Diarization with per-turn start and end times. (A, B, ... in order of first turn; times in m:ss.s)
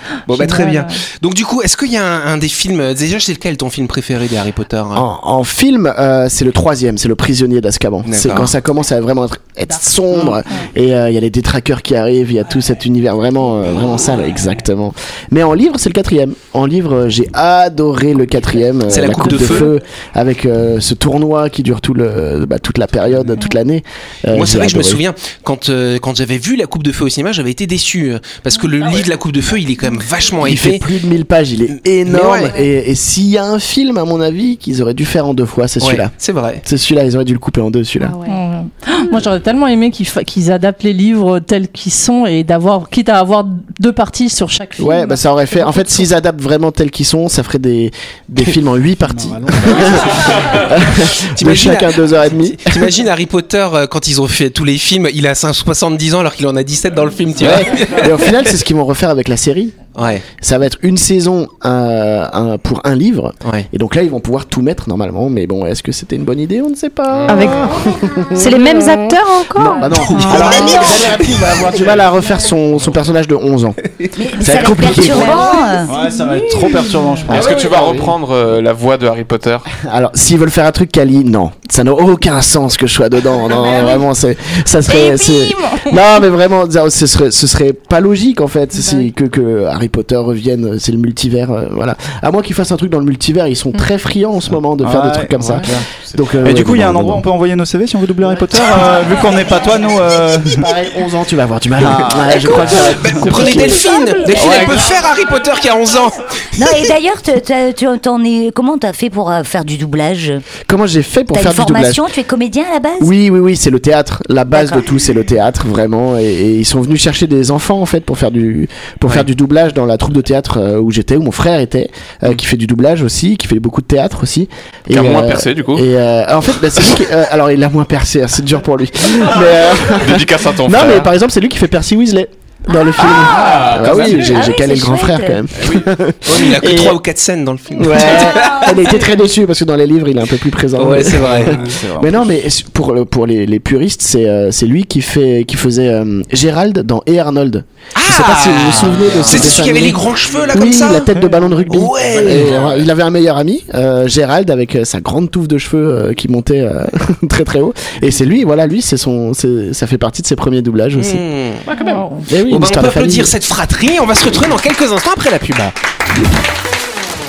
0:00.3-0:05.1 A
0:00.3-0:01.0 B
0:04.9-0:25.0 C
0:08.1-0:08.5 A
0:18.9-0:19.8 A
0:24.3-0:30.8 A
0:30.4-0:36.1 C
0:32.1-0:32.6 A
0:35.8-0:36.6 A
0:36.6-0:38.2 C
0:38.0-0:38.4 D
0:38.3-0:46.1 B
0:44.8-0:53.0 C
0:49.1-0:49.8 E
0:51.4-0:58.4 A
0:57.4-0:59.8 C
1:00.0-1:00.3 A
1:00.4-1:08.6 C
1:07.3-1:07.7 D
1:08.3-1:10.8 D
1:09.6-1:13.8 C
1:09.9-1:11.8 A
1:14.2-1:15.9 F
1:14.3-1:15.6 C
1:15.8-1:18.1 E
1:16.4-1:17.2 B
1:17.3-1:19.7 G
1:17.3-1:18.0 C
1:19.7-1:37.3 C
1:34.8-1:35.9 E
1:36.4-1:40.7 E
1:40.5-1:44.8 C
1:41.8-1:43.1 E
1:42.4-1:46.9 A
1:44.4-1:44.7 E
1:46.6-1:50.4 F
1:50.7-1:52.1 C
1:51.3-1:53.1 F
1:53.0-2:17.0 C
1:54.5-1:54.8 F
2:04.9-2:05.8 G
2:09.9-2:11.1 G
2:13.0-2:14.1 G
2:14.3-2:15.4 F
2:15.6-2:15.9 G
2:16.3-2:19.0 A
2:17.7-2:41.2 C
2:20.8-2:21.6 A
2:21.0-2:22.3 E
2:28.0-2:31.1 A
2:31.1-2:31.8 E
2:31.7-2:32.6 A
2:41.0-2:41.7 A
2:41.7-2:42.0 G
2:41.8-2:42.3 B
2:42.3-2:43.3 C
2:42.5-2:45.7 A